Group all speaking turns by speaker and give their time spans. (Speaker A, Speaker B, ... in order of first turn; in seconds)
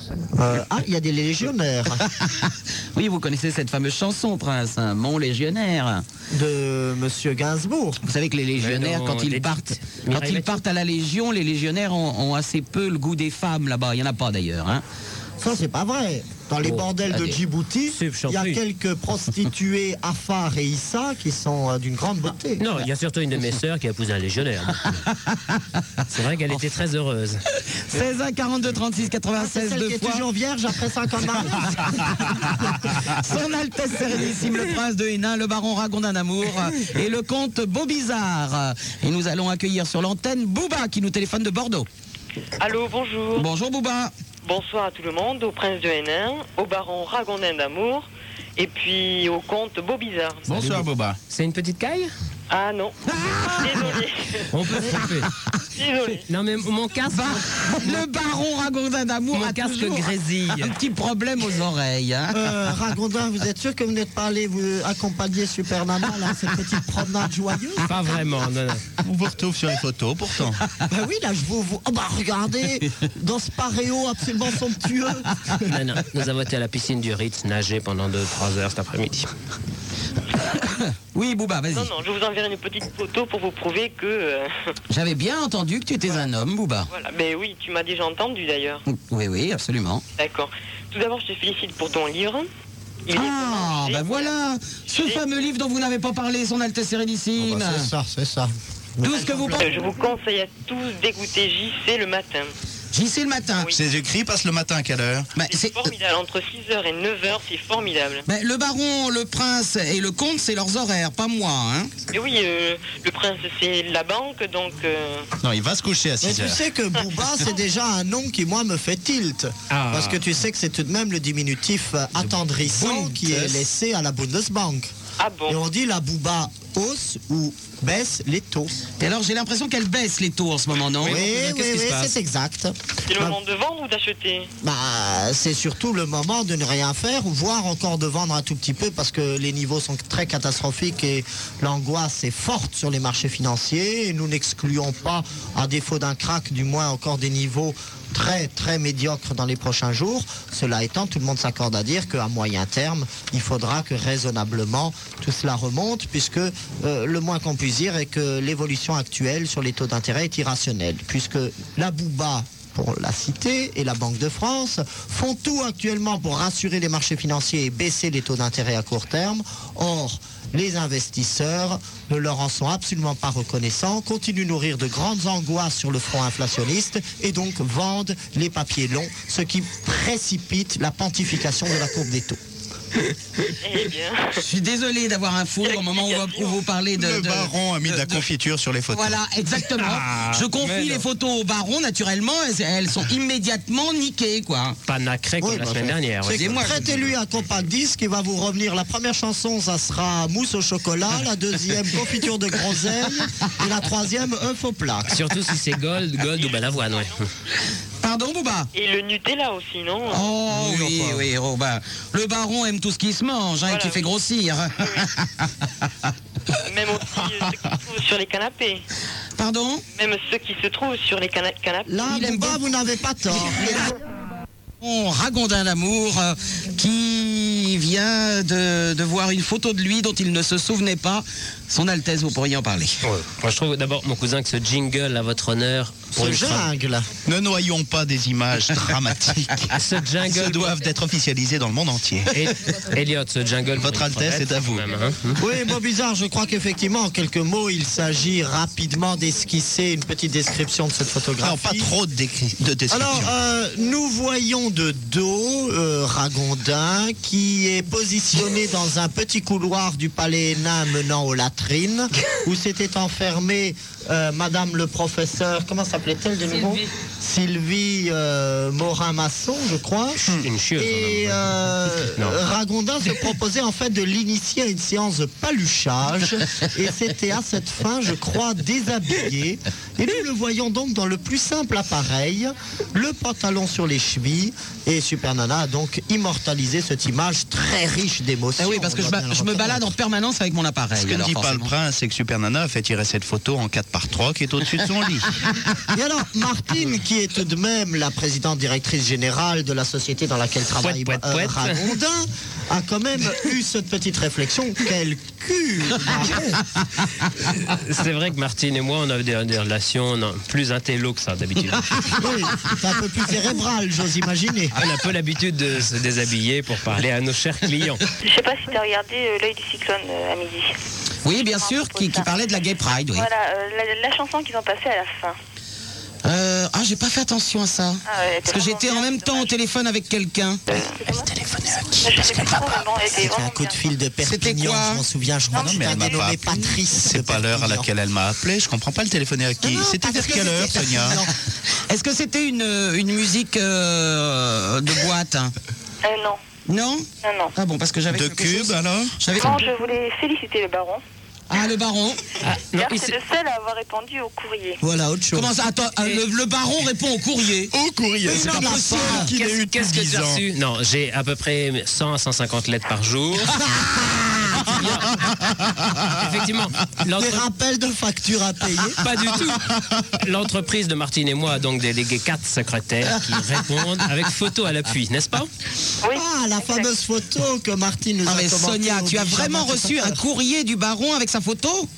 Speaker A: 0.3-2.0, 6.3-8.0, 15.4-22.7, 29.4-32.9, 62.3-68.1, 70.9-75.6, 97.4-99.6, 116.2-124.9, 125.5-128.8, 131.1-133.4, 134.6-182.4, 195.4-205.2, 221.9-224.0, 236.2-237.1, 245.4-251.9, 252.9-289.9, 295.9-306.6, 312.2-314.8, 333.1-337.9, 339.6-341.3, 354.8-355.5, 358.2-359.3, 363.9-364.7, 367.2-369.0, 376.1-380.2
Speaker B: 2.0-6.0, 8.0-14.8, 25.1-26.6, 27.7-30.2, 31.9-32.2, 33.0-41.9, 43.4-44.1, 53.1-53.9, 57.1-62.4, 80.5-81.9, 84.9-86.9, 88.9-90.0, 93.1-97.9, 99.0-99.7, 102.9-103.7, 105.4-105.9, 108.3-111.9, 123.0-123.5, 129.0-131.2, 184.4-188.3, 188.9-194.8, 196.3-196.8, 208.0-208.7, 210.1-215.7, 219.4-219.8, 222.1-222.7, 224.8-233.0, 288.6-291.7, 321.2-323.3, 326.2-330.6, 334.2-335.1, 341.9-345.5, 346.7-349.6, 351.5-352.2, 355.3-357.7, 358.3-359.3, 378.3-381.9
Speaker C: 8.6-10.6, 16.6-17.2, 17.9-18.6, 22.6-25.0, 26.1-27.4, 51.3-52.1, 54.5-55.3, 56.3-58.0, 59.3-60.8, 67.8-68.8, 75.7-79.3, 119.7-120.2, 131.0-132.1, 189.8-191.0, 194.9-196.9, 205.1-207.2, 233.0-236.7, 239.8-240.8, 242.3-245.4, 270.4-271.4, 300.8-301.8, 307.5-312.2, 314.8-318.0, 352.4-353.2, 359.3-363.6, 364.8-365.2, 366.1-367.4, 369.0-375.5
Speaker D: 42.6-43.5, 44.4-50.7, 52.5-53.0, 53.6-54.5, 55.8-56.2, 81.7-84.7, 86.9-88.8, 90.2-92.5, 93.1-94.3, 94.9-95.3, 99.0-102.5, 105.5-108.2, 112.1-115.3, 125.2-125.6, 133.1-134.5, 183.6-184.4, 185.6-186.6, 206.3-207.0, 208.7-210.3, 213.7-214.1, 214.8-215.1, 216.7-218.8, 219.9-221.9
Speaker E: 50.5-51.2, 69.0-70.6, 103.7-105.4, 115.4-116.6, 187.0-189.2, 237.3-242.4, 243.8-244.9, 251.4-253.3, 290.9-295.3, 331.1-332.7, 335.5-336.4, 337.0-341.2, 348.1-349.2, 357.7-360.4, 365.8-366.1
Speaker F: 318.2-320.8, 321.3-322.3, 323.1-325.4, 328.1-329.5, 330.8-331.3, 332.0-333.8, 335.5-336.4, 346.0-346.4, 347.2-347.5, 349.4-351.0, 352.8-354.8, 376.0-376.9